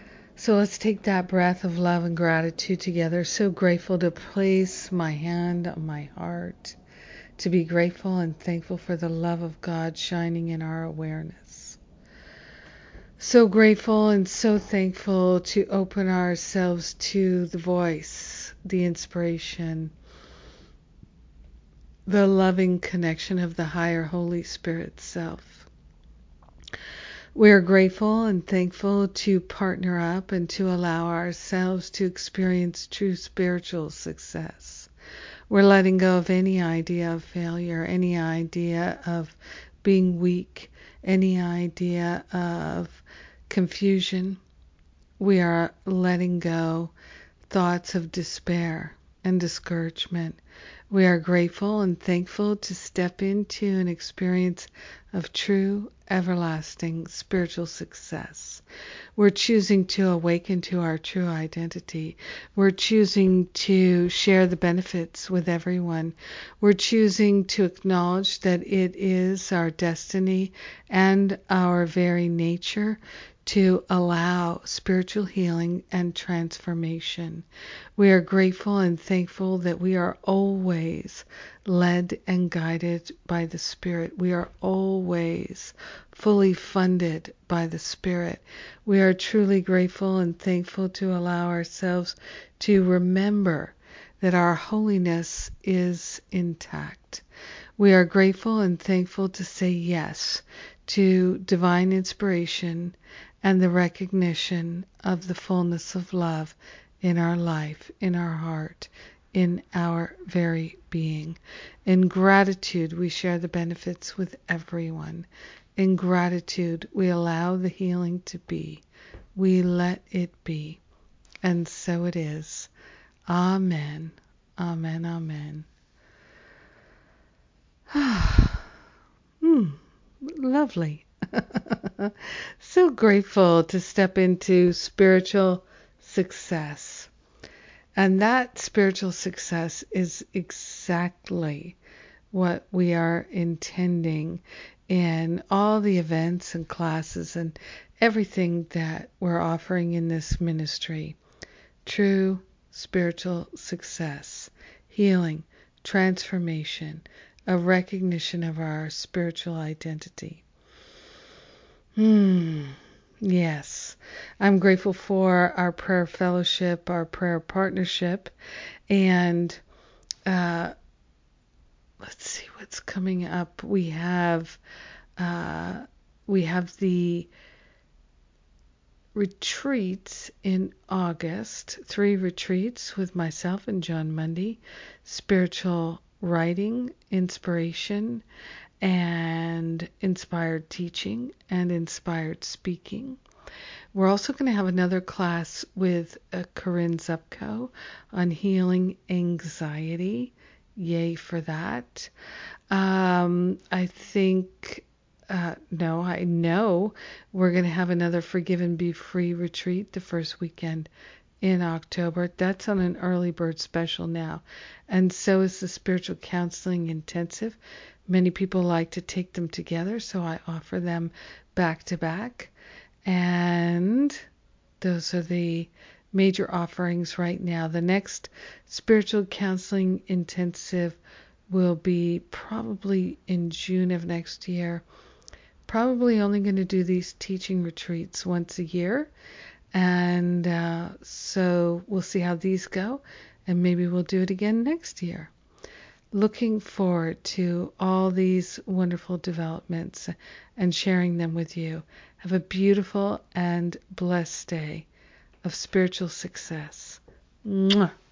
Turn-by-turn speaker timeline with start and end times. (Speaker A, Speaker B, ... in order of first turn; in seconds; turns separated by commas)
Speaker A: 0.4-6.8, Speaker A: 7.4-11.8, Speaker A: 13.2-19.9, Speaker A: 22.1-25.7, Speaker A: 27.3-34.9, Speaker A: 35.5-44.4, Speaker A: 45.2-46.9, Speaker A: 47.5-50.4, Speaker A: 50.9-58.6, Speaker A: 59.2-77.5, Speaker A: 78.0-97.2, Speaker A: 97.8-118.8, Speaker A: 119.4-120.8, Speaker A: 121.4-122.7, Speaker A: 123.3-125.7, Speaker A: 127.9-128.7, Speaker A: 129.4-137.1, Speaker A: 138.0-141.8, Speaker A: 142.3-151.2, Speaker A: 151.8-160.4, Speaker A: 162.0-168.3, Speaker A: 168.9-169.6, Speaker A: 170.3-170.7, Speaker A: 172.0-174.6, Speaker A: 175.2-177.3, Speaker A: 179.2-188.2, Speaker A: 188.8-193.2, Speaker A: 193.9-202.1, Speaker A: 202.7-210.9, Speaker A: 211.4-222.5, Speaker A: 223.1-224.2, Speaker A: 224.8-234.8, Speaker A: 235.7-239.1, Speaker A: 239.7-245.3, Speaker A: 246.1-254.9, Speaker A: 255.4-257.9